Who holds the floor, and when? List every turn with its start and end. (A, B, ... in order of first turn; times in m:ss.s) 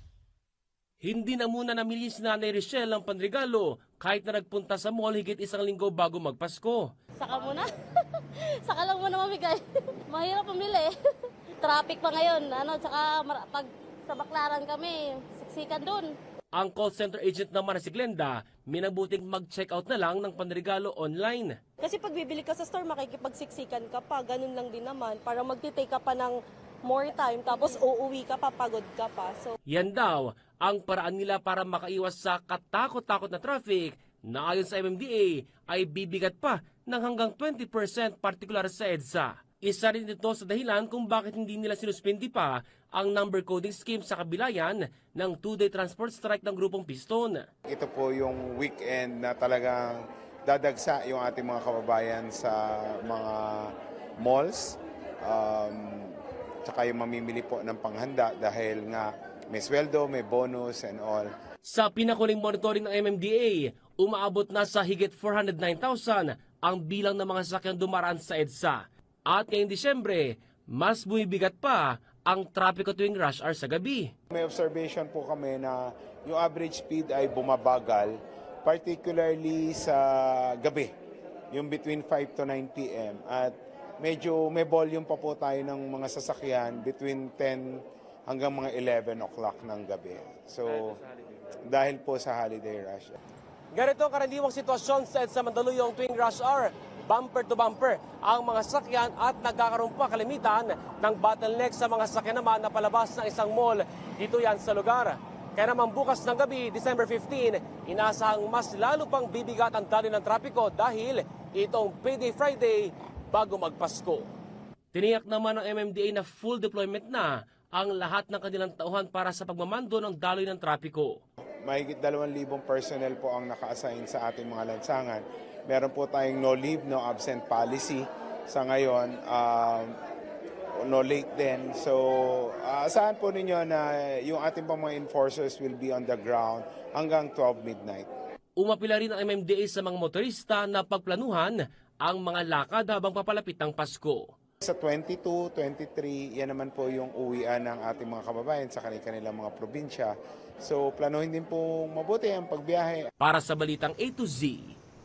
0:01.0-0:06.9 A
0:07.2-0:10.9 B
0:11.6-0:16.1 B
0:16.6-0:21.6 A
0:21.8-0:29.6 C
0:29.7-0:47.5 A
0:47.7-1:01.3 D
1:01.7-1:14.1 A
1:14.3-1:20.9 D
1:21.5-1:31.0 D
1:31.7-1:33.2 D
1:33.7-1:54.3 A
1:54.9-2:01.2 A
2:01.6-2:10.0 D
2:10.8-2:18.1 D
2:18.6-2:24.3 A
2:24.6-2:33.1 D
2:33.2-2:34.8 A